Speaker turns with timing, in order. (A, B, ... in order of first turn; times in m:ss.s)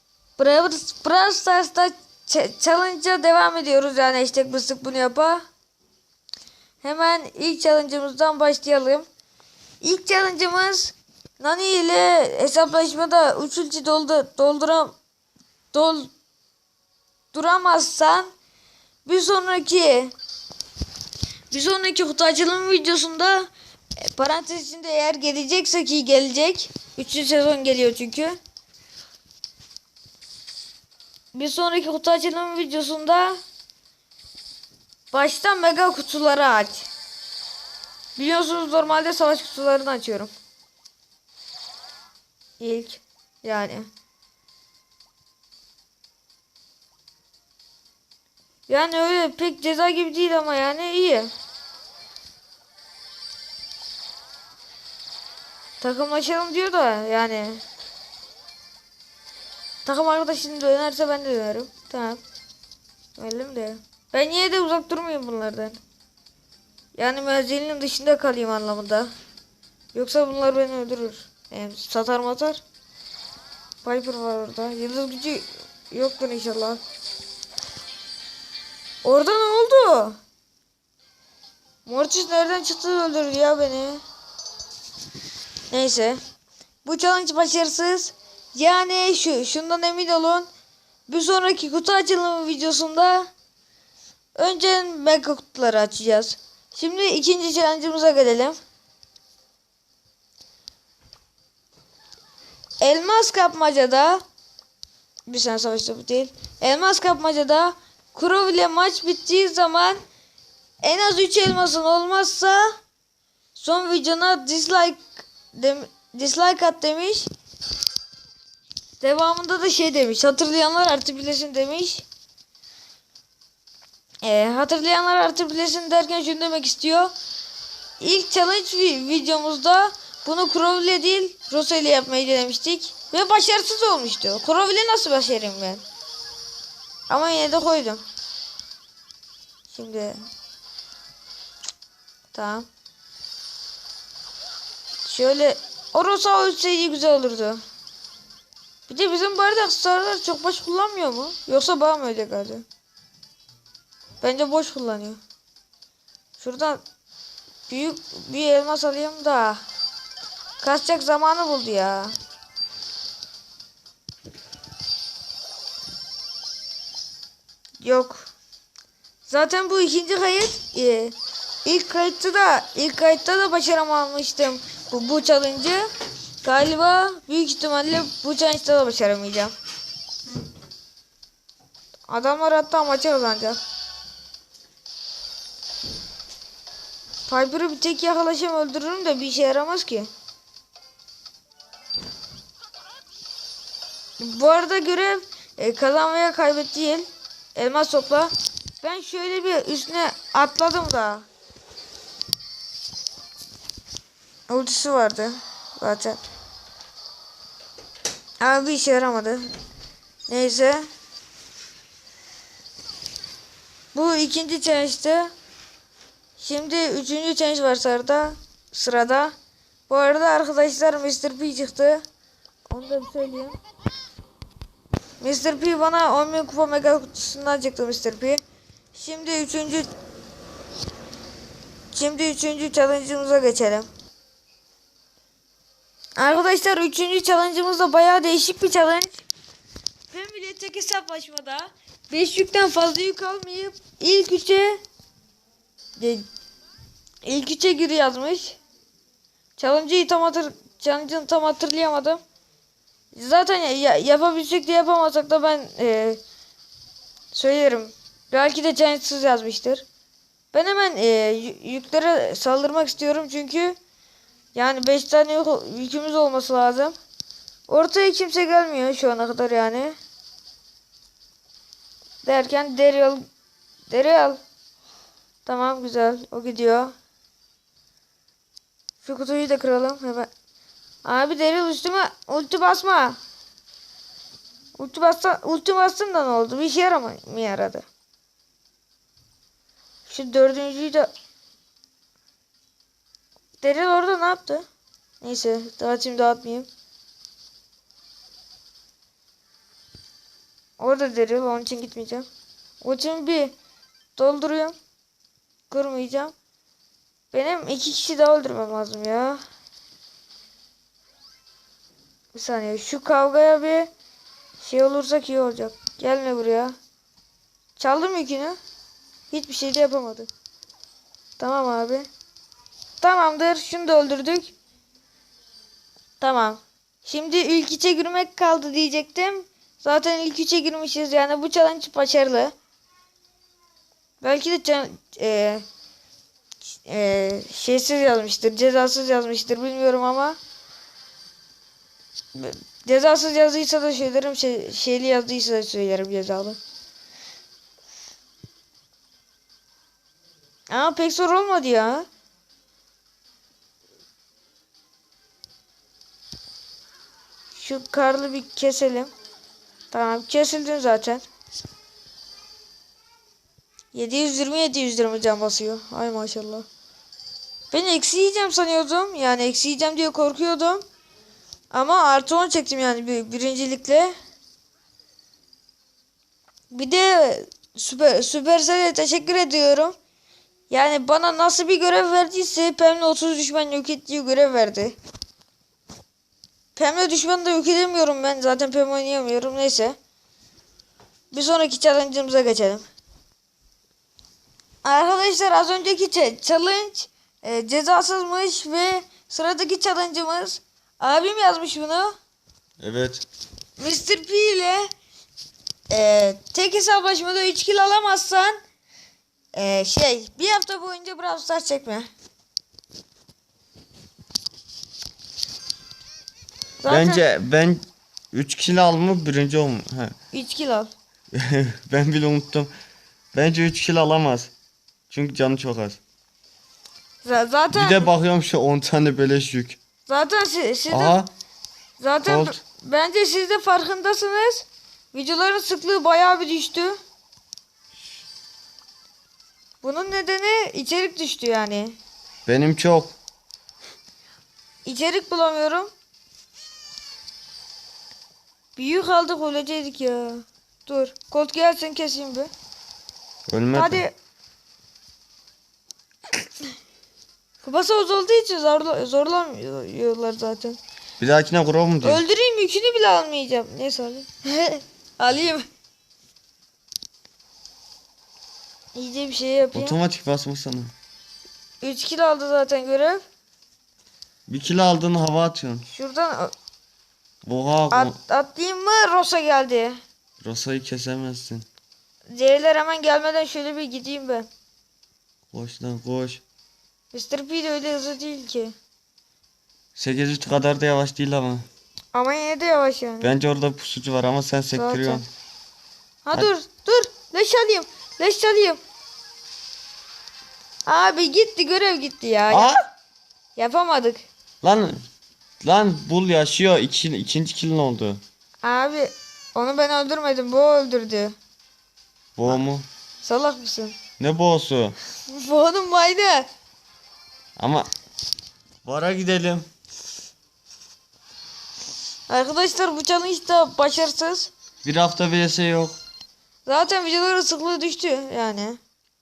0:00.4-0:05.4 A
0:06.8-0:09.1 A
0:09.8-0:15.0 A
0:15.7-0:16.1 A
0:17.3-0:18.3 A
0:19.1-0:20.1 A
0:21.5-0:28.4 A
0:31.3-0:33.4 A
0:35.1-0:36.9 A
0:38.2-0:40.3 A
0:42.6-0:43.9 A
0:48.7-0:51.3 A
0:55.8-0:57.6 A
0:59.8-1:02.2 A
1:03.2-1:05.8 A
1:07.0-1:09.1 A
1:09.9-1:12.6 A
1:13.8-1:16.8 A
1:19.0-1:20.2 A
1:21.9-1:24.0 A
1:25.7-1:26.2 A
1:26.8-1:30.5 A
1:31.1-1:33.3 A
1:34.4-1:38.6 A
1:42.8-1:44.2 A
1:45.3-1:50.0 A
1:50.8-1:52.7 A
1:53.6-1:57.3 A
1:59.0-2:02.0 A
2:04.2-2:07.1 A
2:08.0-2:15.8 A
2:17.1-2:18.0 A
2:19.7-2:20.2 A
2:22.3-2:22.7 A
2:25.0-2:27.6 A
2:28.9-2:32.6 A
2:34.2-2:35.2 A
2:36.4-2:36.8 A
2:37.7-2:39.6 A
2:40.6-2:42.1 A
2:47.8-2:48.3 A
2:49.3-2:51.1 A
2:51.6-2:55.9 A
2:56.4-2:59.5 A
3:02.1-3:03.6 A
3:07.3-3:10.1 A
3:14.2-3:21.3 A
3:24.5-3:26.2 A
3:28.4-3:29.5 A
3:30.3-3:30.9 A
3:33.9-3:35.3 A
3:36.4-3:39.3 A
3:39.9-3:42.0 A
3:42.7-3:43.6 A
3:45.2-3:48.4 A
3:48.9-3:49.9 A
3:51.9-3:53.9 A
3:56.2-3:59.2 A
4:00.1-4:04.8 A
4:06.0-4:06.2 A
4:07.2-4:08.6 A
4:09.6-4:12.2 A
4:13.1-4:16.2 A
4:17.3-4:19.8 A
4:20.5-4:23.8 A
4:24.6-4:27.0 A
4:27.7-4:30.0 A
4:32.2-4:33.3 A
4:33.9-4:34.4 A
4:35.5-4:36.9 A
4:39.0-4:40.3 A
4:41.0-4:43.2 A
4:44.8-4:47.9 A
4:50.1-4:51.1 A
4:53.6-4:54.7 A
4:55.2-4:56.7 A
5:00.8-5:02.3 A
5:02.8-5:03.6 A
5:04.2-5:04.8 A
5:05.7-5:06.3 A
5:07.3-5:09.4 A
5:12.3-5:13.9 A
5:14.6-5:16.8 A
5:17.8-5:18.6 A
5:19.3-5:20.3 A
5:21.4-5:22.1 A
5:23.0-5:24.5 A
5:26.2-5:32.5 A
5:34.2-5:35.6 A
5:36.8-5:40.4 A
5:42.4-5:46.6 A
5:50.7-5:52.1 A
5:57.6-5:59.1 A
5:59.9-6:01.3 A
6:03.9-6:06.7 A
6:07.7-6:10.8 A
6:11.7-6:14.1 A
6:16.7-6:20.0 A
6:20.7-6:25.0 A
6:26.8-6:30.0 A
6:31.3-6:32.9 A
6:34.8-6:42.1 A
6:42.8-6:43.2 B
6:43.8-6:44.9 A
6:45.9-6:48.6 A
6:49.5-6:52.1 A
6:56.8-6:57.2 A
6:56.9-7:00.2 B
7:00.3-7:00.9 A
7:01.3-7:02.7 B
7:03.3-7:04.5 B
7:05.1-7:06.0 B
7:07.2-7:08.1 A
7:07.7-7:09.8 B
7:10.1-7:11.2 A
7:10.9-7:11.3 B
7:12.0-7:17.0 A
7:12.2-7:12.6 B
7:19.8-7:22.0 A
7:22.5-7:23.1 B
7:24.8-7:25.9 A
7:28.8-7:32.5 A
7:33.5-7:34.0 B
7:33.7-7:34.1 A
7:37.6-7:40.8 A
7:41.2-7:42.2 B
7:42.0-7:45.6 A
7:49.0-7:50.0 A
7:49.7-7:50.9 B
7:51.8-7:53.2 A
7:54.5-7:55.9 B
7:55.9-7:56.5 A
7:57.4-7:58.2 B
7:57.9-8:00.0 A
8:00.4-8:01.7 B
8:02.3-8:04.5 A
8:05.5-8:06.4 B
8:07.1-8:08.8 A
8:10.0-8:11.6 B
8:12.1-8:13.3 A
8:13.2-8:15.3 B
8:14.7-8:15.2 A
8:16.2-8:18.8 A
8:20.9-8:22.7 A
8:22.5-8:22.8 B
8:23.6-8:24.3 A
8:24.6-8:25.0 B
8:25.6-8:28.2 B
8:28.6-8:31.4 A
8:32.4-8:32.9 B
8:33.2-8:34.0 A
8:34.2-8:35.0 B
8:35.3-8:36.5 A
8:37.6-8:37.9 B
8:38.8-8:39.7 B
8:42.3-8:44.5 A
8:44.8-8:46.0 B
8:46.7-8:48.8 A